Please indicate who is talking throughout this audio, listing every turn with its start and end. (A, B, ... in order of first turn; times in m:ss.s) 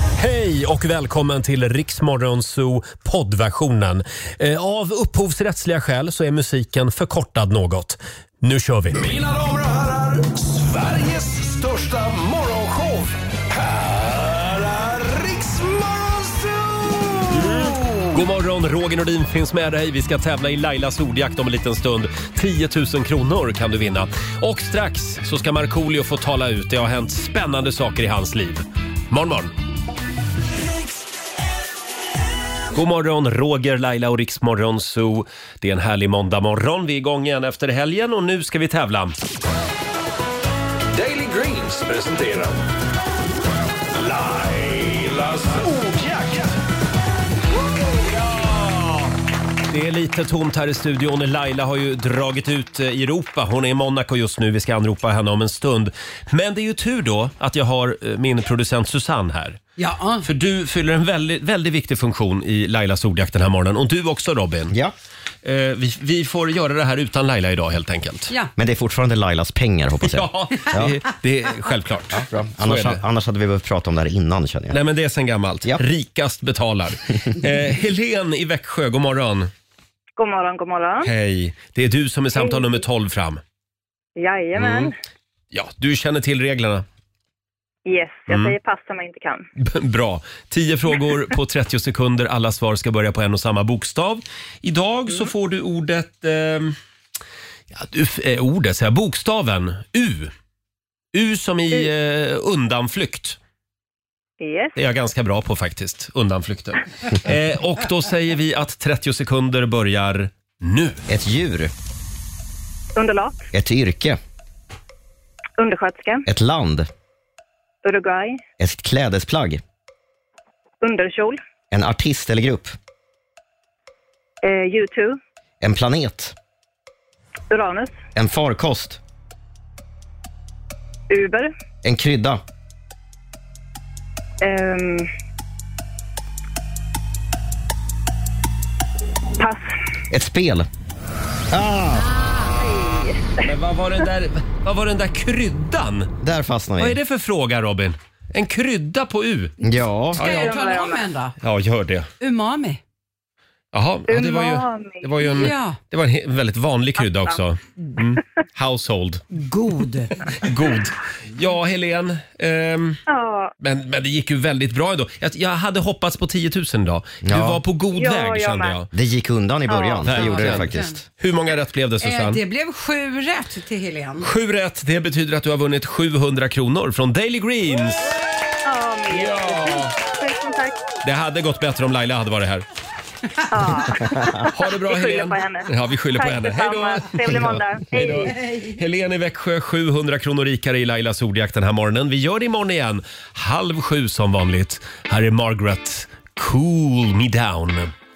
0:00.2-0:09.0 A
0:08.9-0:18.2 B
0:17.3-0:29.5 A
0:32.7-0:39.2 A
0:40.9-0:42.6 B
0:43.9-0:46.6 B
0:47.9-0:48.6 B
0:48.5-0:48.8 A
0:49.7-0:59.6 A
0:59.8-1:00.3 C
1:00.2-1:04.7 A
1:05.4-1:08.3 A
1:08.6-1:11.0 D
1:10.0-1:13.0 A
1:12.1-1:14.8 D
1:14.7-1:19.5 A
1:20.2-1:21.1 E
1:21.0-1:23.4 A
1:22.4-1:22.8 E
1:24.2-1:24.9 E
1:24.6-1:24.9 A
1:25.5-1:26.8 A
1:27.9-1:29.5 E
1:28.3-1:28.6 A
1:29.6-1:36.8 A
1:37.7-1:40.3 A
1:41.1-1:43.4 A
1:44.4-1:44.8 E
1:44.8-1:51.0 A
1:51.1-1:51.7 D
1:53.0-1:53.4 E
1:53.5-1:54.2 D
1:55.6-1:56.2 E
1:56.3-1:56.9 D
1:57.8-1:58.4 E
1:58.6-1:59.6 D
2:00.8-2:01.4 E
2:01.7-2:02.8 D
2:04.4-2:05.2 E
2:05.6-2:06.4 D
2:07.5-2:08.0 E
2:08.2-2:09.0 D
2:11.1-2:11.5 E
2:11.8-2:12.4 D
2:14.4-2:15.1 E
2:19.4-2:19.6 E
2:20.1-2:20.7 D
2:21.5-2:22.1 D
2:22.4-2:23.4 E
2:23.4-2:26.1 A
2:26.2-2:27.0 D
2:26.8-2:29.5 A
2:29.6-2:30.2 D
2:30.2-2:30.5 A
2:30.2-2:31.4 C
2:30.2-2:31.0 E
2:31.4-2:32.1 A
2:32.2-2:32.8 C
2:33.7-2:39.2 A
2:34.1-2:35.4 E
2:35.2-2:35.8 C
2:37.0-2:37.4 E
2:39.3-2:40.1 C
2:40.4-2:43.0 A
2:43.1-2:43.5 E
2:43.6-2:48.9 A
2:47.2-2:47.6 D
2:48.0-2:48.8 E
2:48.9-2:51.0 D
2:49.7-2:50.5 E
2:50.0-2:52.4 A
2:50.4-2:50.9 C
2:52.0-2:54.3 C
2:54.2-2:58.2 A
2:58.6-3:00.8 E
2:59.1-2:59.9 A
3:01.0-3:02.6 A
3:03.5-3:08.4 E
3:04.5-3:17.9 A
3:08.1-3:08.8 C